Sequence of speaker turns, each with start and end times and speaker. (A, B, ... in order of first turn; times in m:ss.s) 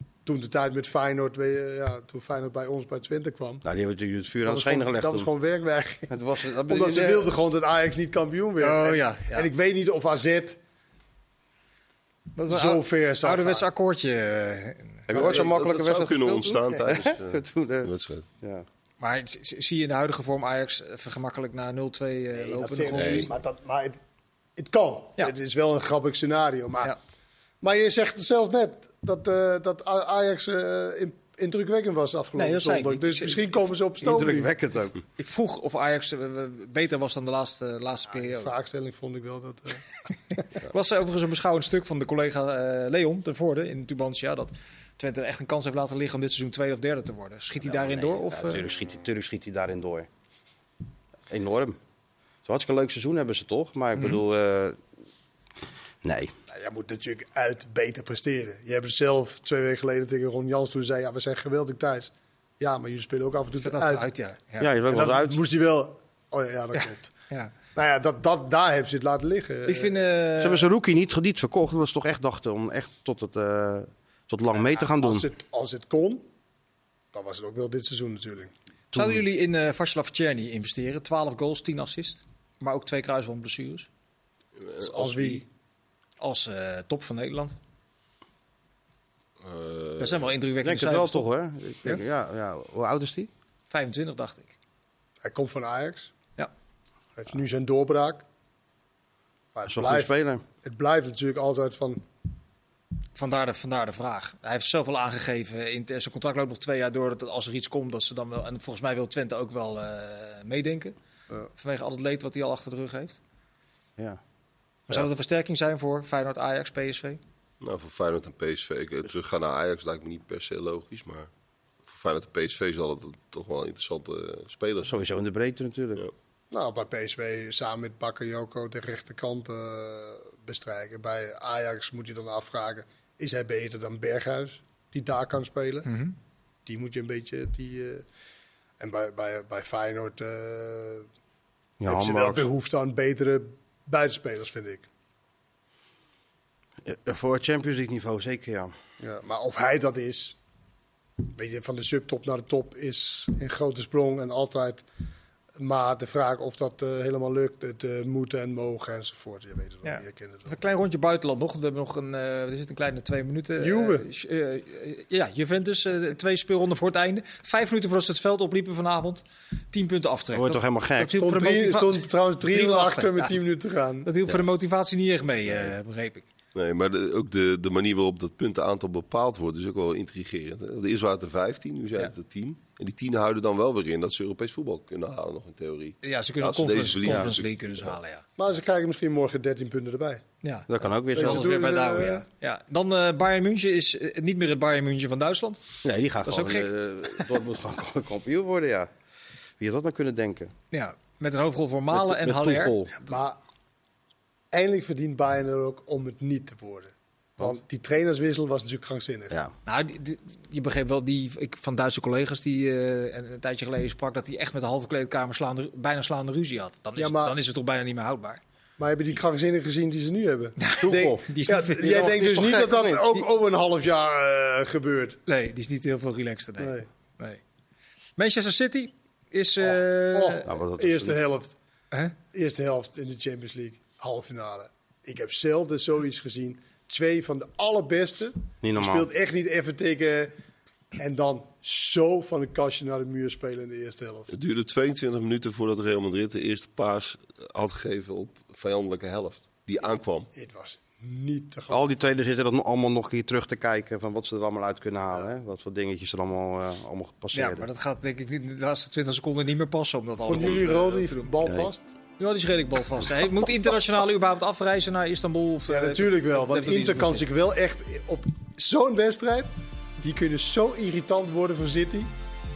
0:00.2-0:03.6 A
0:03.6-0:05.3 B
0:04.5-0:10.6 A
0:06.1-0:07.3 B
0:08.6-0:09.5 C
0:12.4-0:15.1 C
0:12.5-0:13.7 A
0:15.1-0:18.3 D
0:15.1-0:18.7 B
0:19.0-0:23.3 C
0:22.3-0:24.0 A
0:23.0-0:23.3 D
0:24.6-0:27.0 A
0:27.6-0:34.6 A
0:32.4-0:33.6 C
0:34.0-0:35.0 B
0:35.2-0:38.5 C
0:38.1-0:40.4 A
0:40.6-0:48.7 C
0:47.6-0:50.1 B
0:51.3-0:51.8 B
0:52.4-0:54.8 B
0:54.0-0:54.2 C
0:56.0-0:56.3 B
0:56.5-1:04.1 A
1:03.6-1:04.7 C
1:04.6-1:05.4 B
1:04.9-1:07.1 A
1:06.7-1:07.5 C
1:07.7-1:10.0 A
1:09.7-1:10.7 C
1:10.4-1:15.3 B
1:14.6-1:16.3 A
1:17.1-1:18.5 A
1:18.9-1:19.2 B
1:18.9-1:23.9 C
1:24.6-1:25.4 D
1:24.8-1:25.4 A
1:26.2-1:27.6 C
1:29.4-1:30.3 D
1:30.0-1:31.3 C
1:30.6-1:33.3 B
1:33.7-1:34.5 C
1:35.2-1:36.1 A
1:37.2-1:38.2 A
1:39.5-1:42.1 A
1:39.7-1:40.4 B
1:43.2-1:51.0 C
1:51.5-1:53.2 C
1:54.9-1:57.2 C
1:57.6-2:01.3 D
2:01.8-2:04.9 D
2:04.9-2:06.1 B
2:06.5-2:15.9 A
2:15.8-2:16.2 C
2:16.7-2:18.0 A
2:18.8-2:21.1 A
2:21.8-2:22.5 B
2:21.8-2:24.9 A
2:26.8-2:28.8 B
2:29.0-2:30.4 A
2:31.2-2:34.8 A
2:35.6-2:40.5 A
2:39.8-2:53.4 C
2:43.6-2:44.1 A
2:50.3-2:51.2 B
2:51.1-2:54.1 A
2:54.0-2:56.3 C
2:56.5-3:07.9 D
3:06.0-3:08.3 C
3:07.0-3:07.3 B
3:08.4-3:10.2 A
3:10.4-3:15.6 C
3:10.7-3:11.6 B
3:11.2-3:12.2 A
3:15.8-3:18.9 B
3:16.2-3:17.3 C
3:19.6-3:20.5 B
3:20.7-3:22.8 C
3:21.9-3:23.0 B
3:23.0-3:23.4 A
3:24.5-3:29.4 A
3:29.7-3:38.4 C
3:37.0-3:37.4 A
3:38.8-3:45.2 A
3:40.6-3:43.2 C
3:40.8-3:41.2 B
3:42.0-3:43.0 B
3:45.3-3:47.4 C
3:46.6-3:46.9 A
3:48.2-3:50.5 C
3:49.6-3:51.6 A
3:50.5-3:51.2 B
3:52.3-4:00.3 A
3:58.6-3:59.1 B
4:01.0-4:04.3 A
4:04.3-4:10.3 D
4:10.3-4:11.9 A
4:11.7-4:17.7 B
4:17.3-4:21.3 C
4:20.3-4:21.9 A
4:21.4-4:21.7 B
4:22.2-4:27.3 C
4:25.7-4:32.1 A